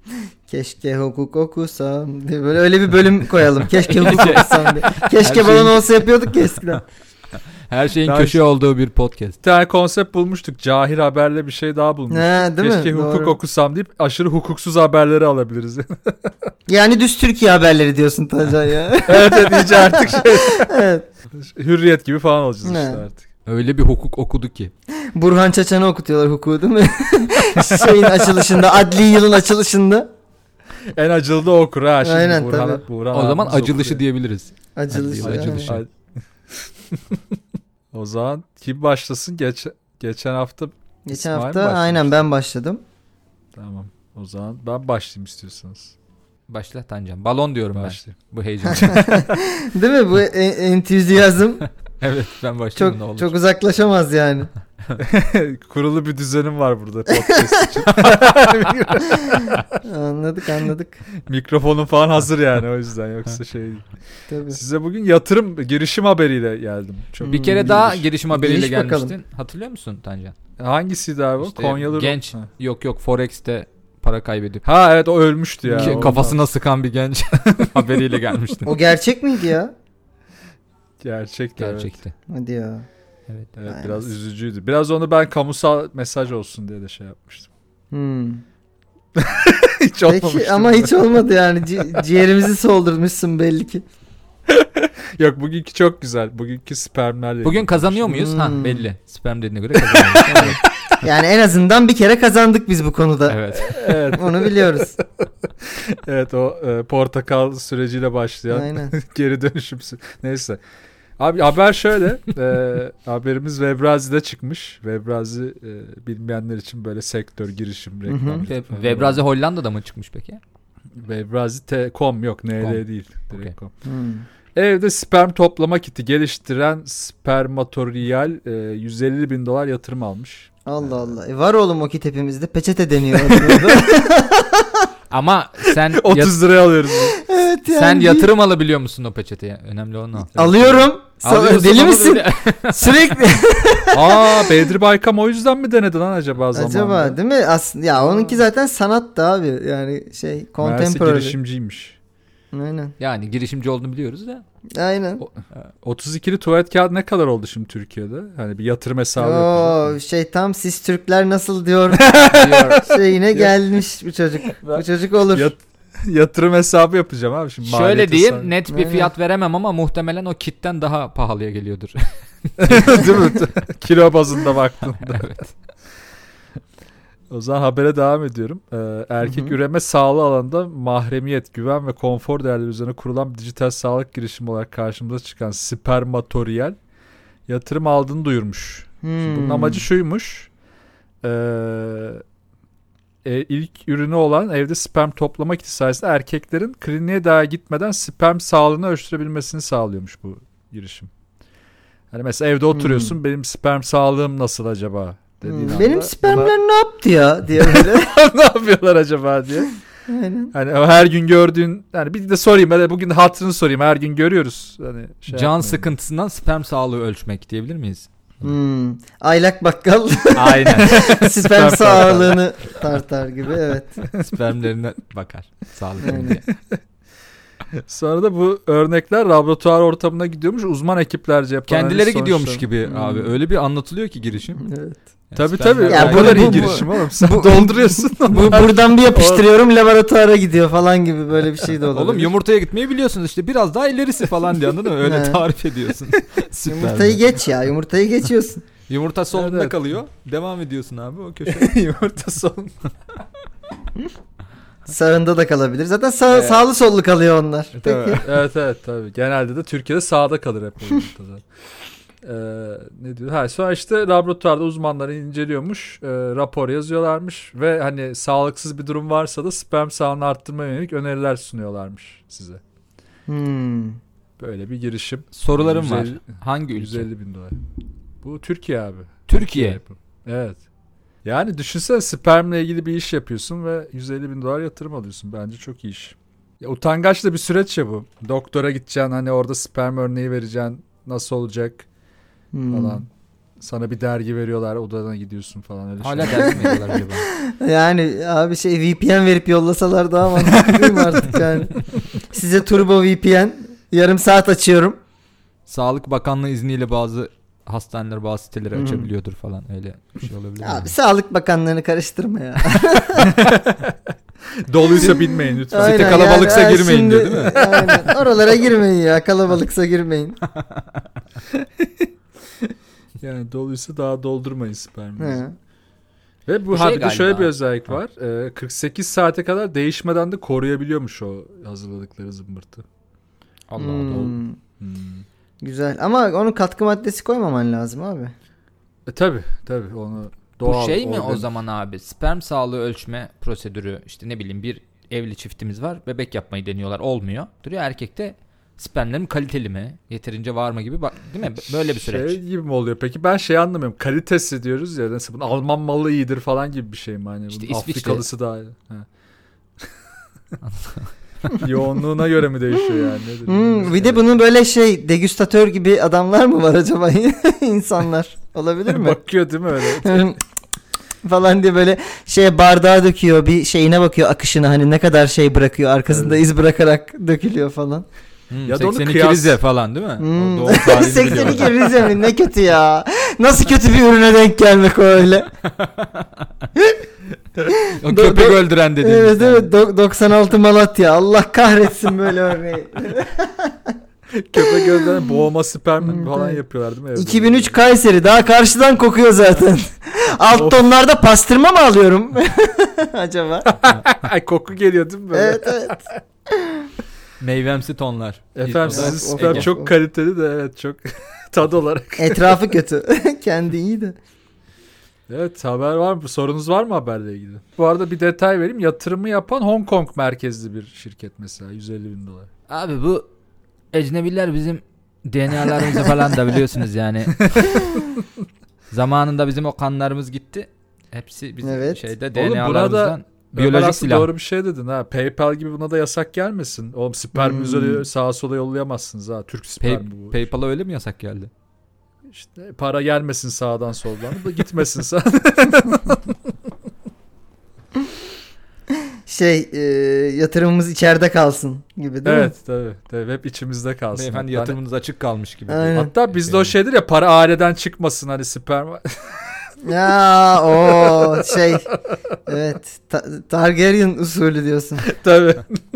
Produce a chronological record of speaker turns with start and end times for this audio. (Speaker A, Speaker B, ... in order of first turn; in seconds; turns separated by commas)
Speaker A: 0.5-6.9, Speaker B: 3.8-6.0, Speaker B: 7.7-9.4, Speaker C: 8.0-8.4, Speaker C: 9.4-16.3, Speaker A: 12.1-13.4, Speaker A: 16.7-21.1, Speaker C: 19.1-20.7, Speaker C: 21.3-23.2, Speaker A: 22.6-23.0, Speaker B: 23.4-24.7, Speaker A: 25.1-30.1, Speaker C: 27.6-28.5, Speaker C: 30.9-34.0, Speaker A: 32.0-32.8, Speaker B: 33.1-35.8, Speaker A: 34.8-35.8, Speaker C: 35.2-35.9, Speaker C: 36.9-37.2, Speaker C: 37.9-42.2, Speaker A: 41.1-42.8, Speaker C: 43.5-45.9, Speaker B: 46.5-49.2, Speaker C: 47.7-48.2, Speaker A: 48.6-51.6, Speaker C: 48.7-49.0, Speaker B: 52.0-53.3, Speaker A: 52.8-54.5, Speaker C: 55.0-59.6, Speaker A: 57.3-57.8, Speaker B: 57.9-59.0, Speaker A: 59.2-61.0, Speaker C: 61.2-63.9, Speaker A: 64.3-64.6, Speaker C: 64.5-68.0, Speaker A: 67.2-69.1, Speaker B: 67.2-70.3, Speaker C: 70.6-72.5, Speaker B: 71.4-74.6, Speaker C: 74.6-76.4, Speaker A: 75.7-76.2, Speaker B: 75.7-78.8, Speaker A: 78.6-79.7, Speaker C: 81.0-82.0, Speaker B: 81.6-82.1, Speaker A: 82.3-82.8, Speaker C: 83.6-87.5, Speaker A: 83.7-84.1, Speaker A: 87.9-88.4, Speaker C: 89.1-91.0, Speaker A: 90.0-93.8, Speaker C: 94.5-98.2, Speaker B: 97.4-100.6, Speaker A: 98.1-98.8, Speaker C: 99.8-100.5, Speaker A: 100.2-104.9, Speaker B: 103.3-103.9, Speaker C: 103.6-105.0, Speaker C: 105.6-110.6, Speaker A: 108.5-108.9, Speaker C: 111.2-119.2, Speaker A: 118.1-118.5, Speaker B: 118.5-120.4, Speaker C: 121.0-123.7, Speaker B: 122.6-123.5, Speaker A: 123.8-124.2, Speaker C: 124.5-130.8, Speaker A: 130.7-134.9, Speaker C: 133.2-133.8, Speaker B: 135.1-136.4, Speaker C: 135.6-137.2, Speaker A: 137.0-138.3, Speaker B: 137.7-143.2, Speaker A: 140.3-144.7, Speaker C: 143.9-147.2, Speaker A: 146.5-151.3, Speaker C: 150.6-152.0, Speaker A: 152.5-152.9, Speaker B: 153.0-154.4, Speaker A: 154.7-155.2, Speaker C: 155.2-159.9, Speaker A: 159.2-162.1, Speaker C: 161.9-163.6, Speaker B: 162.2-162.8, Speaker A: 162.8-165.5, Speaker C: 164.6-168.5, Speaker B: 167.6-173.3, Speaker A: 168.7-169.1, Speaker C: 172.6-175.3, Speaker B: 175.0-175.5, Speaker C: 177.3-186.8, Speaker A: 179.2-179.5, Speaker C: 187.5-190.5, Speaker A: 189.0-189.8, Speaker C: 191.2-192.2, Speaker C: 193.2-201.1, Speaker C: 202.1-206.5, Speaker A: 202.7-203.1, Speaker A: 205.4-208.1, Speaker C: 207.6-209.8, Speaker A: 210.1-210.5, Speaker C: 210.5-215.9, Speaker B: 215.3-218.1, Speaker A: 218.4-224.0, Speaker B: 220.3-221.2, Speaker C: 220.7-222.4, Speaker B: 221.8-222.3, Speaker B: 224.1-226.4, Speaker A: 226.0-226.4, Speaker C: 226.3-226.7, Speaker C: 227.8-232.7, Speaker B: 231.7-234.6, Speaker A: 232.8-233.3, Speaker A: 234.6-235.0, Speaker B: 235.3-236.8, Speaker C: 235.3-239.5, Speaker A: 235.8-242.3, Speaker B: 241.9-247.2, Speaker A: 245.0-245.4, Speaker A: 246.7-248.6, Speaker B: 248.9-251.9, Speaker C: 249.3-249.8, Speaker C: 251.4-252.7, Speaker A: 254.9-258.2, Speaker C: 256.3-256.6, Speaker B: 257.7-258.4, Speaker C: 258.2-261.4, Speaker C: 262.2-272.6, Speaker A: 273.3-274.0, Speaker C: 274.4-277.6, Speaker B: 275.3-277.1, Speaker C: 278.2-280.6, Speaker B: 279.3-279.8, Speaker C: 281.2-291.9, Speaker A: 292.5-293.0, Speaker C: 292.7-293.1, Speaker C: 293.6-296.9, Speaker B: 296.0-297.3, Speaker A: 297.1-305.0, Speaker C: 300.5-301.4, Speaker B: 305.7-310.9, Speaker A: 308.7-309.1, Speaker A: 310.6-313.3, Speaker C: 313.2-313.9, Speaker C: 314.6-316.4, Speaker A: 314.9-320.4, Speaker B: 315.7-318.1, Speaker C: 317.5-318.1, Speaker B: 320.5-321.1, Speaker C: 321.5-322.1, Speaker C: 323.2-325.4, Speaker A: 325.2-325.5, Speaker C: 326.4-332.8, Speaker B: 326.7-327.5, Speaker B: 333.7-334.3, Speaker A: 333.8-334.6, Speaker C: 334.1-335.2, Speaker A: 335.6-338.3, Speaker C: 339.1-341.5, Speaker B: 340.6-352.4, Speaker C: 351.6-359.1, Speaker B: 357.5-358.2, Speaker B: 360.6-361.6, Speaker C: 361.5-364.2, Speaker A: 362.9-369.2, Speaker C: 368.9-370.3, Speaker A: 369.8-370.4, Speaker A: 371.2-378.1, Speaker C: 376.1-376.4, Speaker B: 378.5-381.8, Speaker C: 378.6-379.6, Speaker A: 380.2-385.5, Speaker B: 385.6-386.5, Speaker B: 387.8-389.7, Speaker A: 388.1-393.9, Speaker C: 394.3-397.8, Speaker A: 394.6-395.1, Speaker A: 396.0-396.6, Speaker A: 397.1-403.8, Speaker C: 400.5-400.8, Speaker C: 403.7-406.0, Speaker A: 405.3-406.9, Speaker B: 407.4-409.7, Speaker C: 408.6-412.6, Speaker A: 408.9-409.9, Speaker A: 412.2-414.1, Speaker C: 415.3-422.5, Speaker B: 422.7-423.3, Speaker B: 423.9-427.9, Speaker C: 427.4-428.2, Speaker B: 428.9-434.3, Speaker A: 431.6-432.0, Speaker C: 432.3-440.4, Speaker A: 437.3-438.0, Speaker B: 439.8-441.5, Speaker C: 442.3-446.4, Speaker A: 449.2-452.5, Speaker C: 452.2-454.8, Speaker B: 454.1-456.7, Speaker A: 455.7-456.1, Speaker C: 455.9-459.8, Speaker A: 459.8-461.9, Speaker C: 460.6-462.0, Speaker A: 462.5-465.1, Speaker C: 465.0-465.8